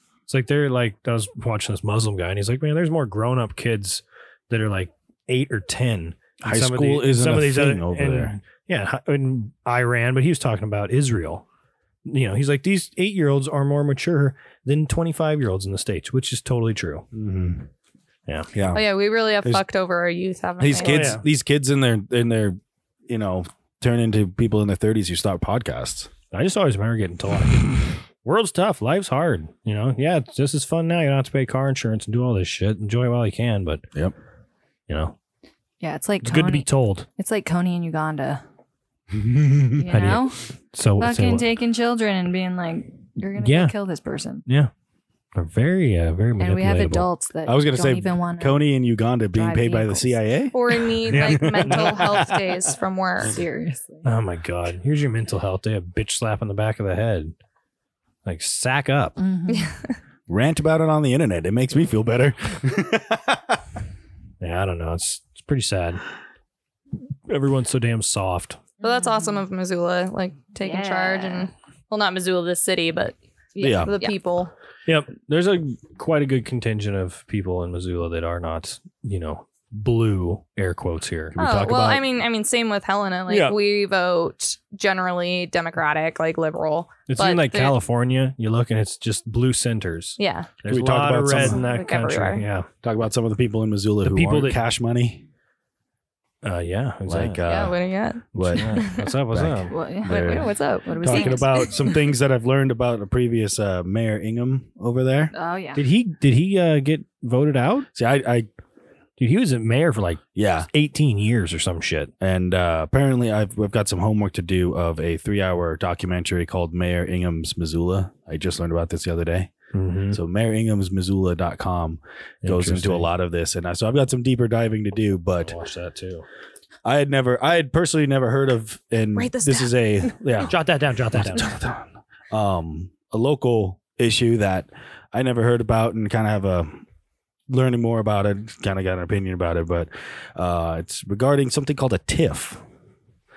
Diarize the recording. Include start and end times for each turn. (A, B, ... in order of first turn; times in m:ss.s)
0:00.3-0:11.4 A
0:06.4-0:08.4 B
0:12.0-0:17.0 A
0:17.1-0:17.7 B
0:18.5-0:18.8 B
0:18.7-0:21.1 C
0:20.6-0:26.1 B
0:20.8-0:21.2 A
0:26.3-0:33.8 A
0:34.9-0:35.1 A
0:35.8-0:38.4 D
0:36.2-0:37.0 A
0:39.1-0:39.8 B
0:39.8-0:40.4 D
0:39.9-0:41.5 A
0:41.0-0:44.4 D
0:43.4-0:43.7 A
0:44.4-0:44.7 A
0:45.4-0:47.1 A
0:46.4-0:48.6 D
0:47.4-0:52.7 B
0:49.3-0:50.2 D
0:50.5-0:53.4 C
0:51.1-0:52.1 A
0:53.2-0:54.1 D
0:54.0-0:57.3 A
0:58.2-0:59.2 A
0:59.2-0:59.7 D
0:59.5-0:59.8 C
1:00.3-1:03.6 B
1:04.4-1:06.0 A
1:07.3-1:08.6 A
1:08.8-1:13.1 C
1:08.8-1:09.4 D
1:10.6-1:11.5 D
1:13.5-1:14.1 D
1:13.6-1:13.9 B
1:13.7-1:14.5 C
1:14.8-1:21.4 A
1:21.3-1:22.0 B
1:21.4-1:27.7 C
1:23.3-1:23.6 A
1:27.1-1:32.7 A
1:30.2-1:30.5 C
1:30.6-1:31.6 B
1:31.4-1:32.4 C
1:32.8-1:35.2 B
1:34.0-1:34.6 A
1:36.4-1:37.7 A
1:37.0-1:37.8 B
1:37.4-1:39.1 C
1:38.3-1:38.6 B
1:38.4-1:39.7 A
1:39.3-1:40.5 B
1:39.7-1:41.9 D
1:40.1-1:42.0 C
1:41.0-1:45.3 B
1:45.3-1:45.8 D
1:45.8-1:47.9 A
1:47.9-1:48.5 B
1:49.2-1:52.1 A
1:50.4-1:50.7 B
1:52.2-1:59.5 B
1:59.7-2:00.2 A
2:00.1-2:05.5 B
2:02.4-2:03.1 A
2:05.4-2:06.2 A
2:06.8-2:10.6 B
2:09.2-2:09.7 C
2:10.4-2:11.6 A
2:11.1-2:16.8 B
2:17.5-2:22.6 B